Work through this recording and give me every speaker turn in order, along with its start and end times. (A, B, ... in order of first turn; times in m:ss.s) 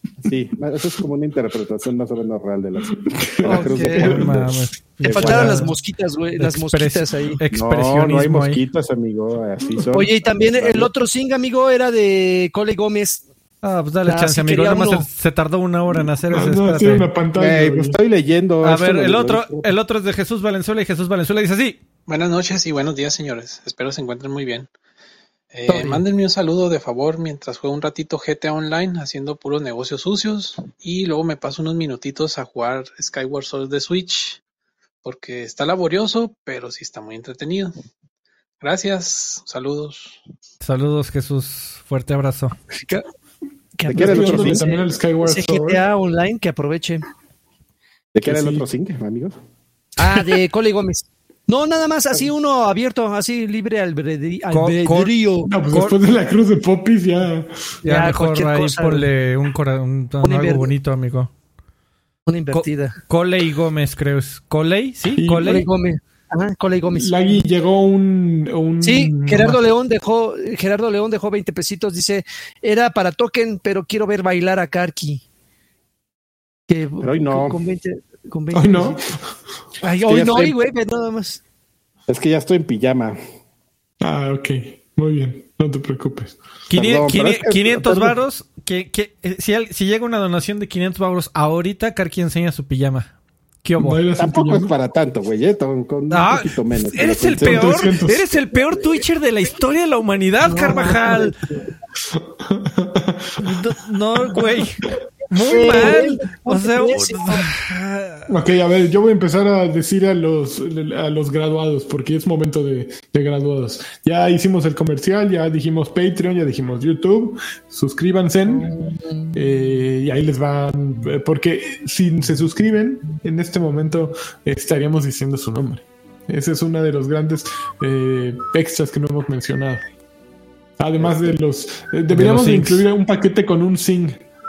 0:00.2-0:05.7 A
0:03.4-0:04.6 B
0:03.4-0:04.1 C
0:03.8-0:05.8 D
0:05.0-0:07.4 C
0:06.4-0:08.6 D
0:07.5-0:10.9 A
0:09.9-0:13.2 C
0:13.6-0:17.1 D
0:14.1-0:15.1 C
0:16.3-0:18.0 B
0:17.4-0:19.7 A
0:18.6-0:21.8 D
0:22.1-0:24.7 E
0:25.5-0:34.4 E
0:25.7-0:26.0 A
0:35.0-0:37.7 E
0:38.6-0:40.2 E
0:40.6-0:42.6 D
0:43.8-0:47.0 C
0:43.9-0:44.7 A
0:43.9-0:45.8 B
0:48.1-0:49.4 A
0:48.2-0:48.6 B
0:50.0-0:55.5 C
0:54.5-0:55.1 D
0:55.5-0:57.5 B
0:55.7-0:56.0 D
0:57.8-0:59.1 C
0:57.8-1:01.3 D
1:00.2-1:00.7 C
1:02.3-1:03.0 C
1:02.5-1:05.7 D
1:05.2-1:05.6 B
1:05.4-1:07.4 C
1:07.0-1:09.6 B
1:08.8-1:15.2 C
1:16.7-1:19.1 C
1:17.0-1:17.6 A
1:18.5-1:19.2 B
1:19.8-1:21.4 C
1:20.0-1:20.6 A
1:22.1-1:23.2 A
1:24.0-1:26.4 B
1:26.7-1:33.1 D
1:26.8-1:28.2 A
1:33.6-1:34.0 D
1:33.8-1:34.7 B
1:34.2-1:37.9 A
1:36.1-1:41.4 D
1:37.4-1:38.2 B
1:40.5-1:41.6 C
1:42.1-1:43.6 B
1:43.4-1:48.3 D
1:45.4-1:47.5 C
1:48.3-1:58.7 B
1:58.5-1:59.4 C
1:59.3-2:09.8 B
2:10.8-2:14.2 B
2:11.0-2:11.4 A
2:12.1-2:12.8 D